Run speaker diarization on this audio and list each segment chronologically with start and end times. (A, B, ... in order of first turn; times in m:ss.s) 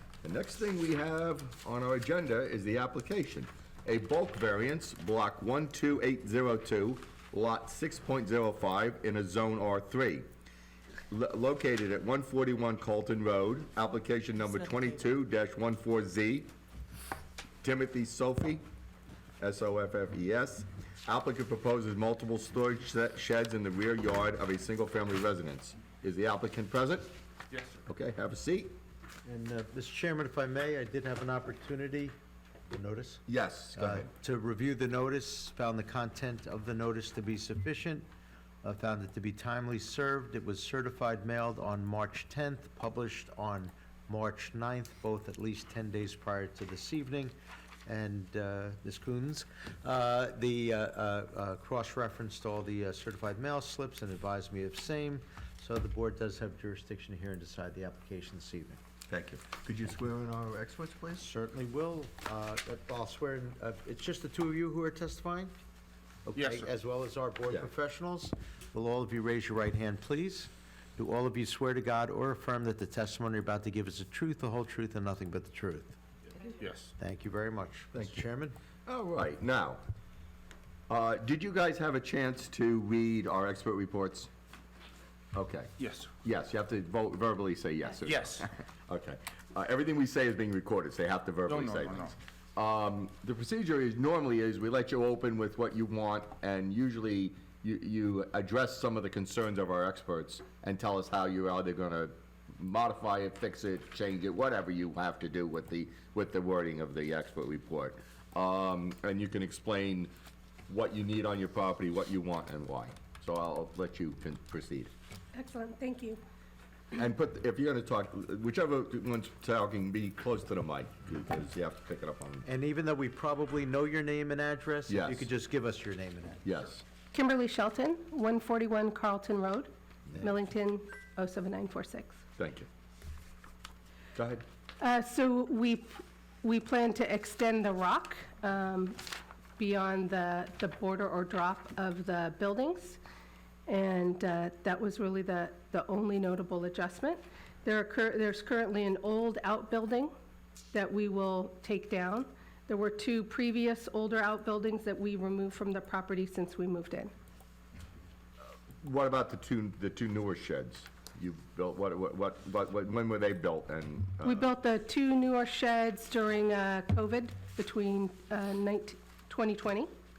0:00.2-0:10.2 A
0:11.1-0:16.5 A
0:17.6-0:18.6 A
0:19.4-0:27.1 A
0:27.8-0:28.7 A
0:29.2-0:32.2 B
0:32.7-0:33.2 B
0:33.3-0:34.1 A
0:33.8-0:38.1 B
0:38.6-0:47.3 B
0:47.8-0:58.8 B
0:59.1-1:01.2 A
1:01.2-1:05.6 B
1:06.2-1:16.0 B
1:06.4-1:06.7 C
1:16.4-1:16.9 C
1:17.0-1:18.6 B
1:18.0-1:18.3 A
1:18.9-1:19.8 A
1:20.9-1:24.3 A
1:25.3-1:25.7 A
1:25.8-1:26.1 C
1:26.2-1:50.1 A
1:28.0-1:28.5 C
1:31.4-1:32.2 C
1:50.7-1:54.9 A
1:55.3-1:56.2 D
1:56.9-2:02.4 A
2:02.4-2:06.4 B
2:04.9-2:05.3 A
2:06.4-2:06.8 A
2:07.1-2:12.2 D
2:12.4-2:12.7 A
2:14.2-2:14.4 A
2:14.8-2:19.0 D
2:19.6-2:23.0 D
2:23.7-2:30.1 D
2:30.7-2:37.1 D
2:38.8-2:44.5 A
2:44.2-2:49.9 D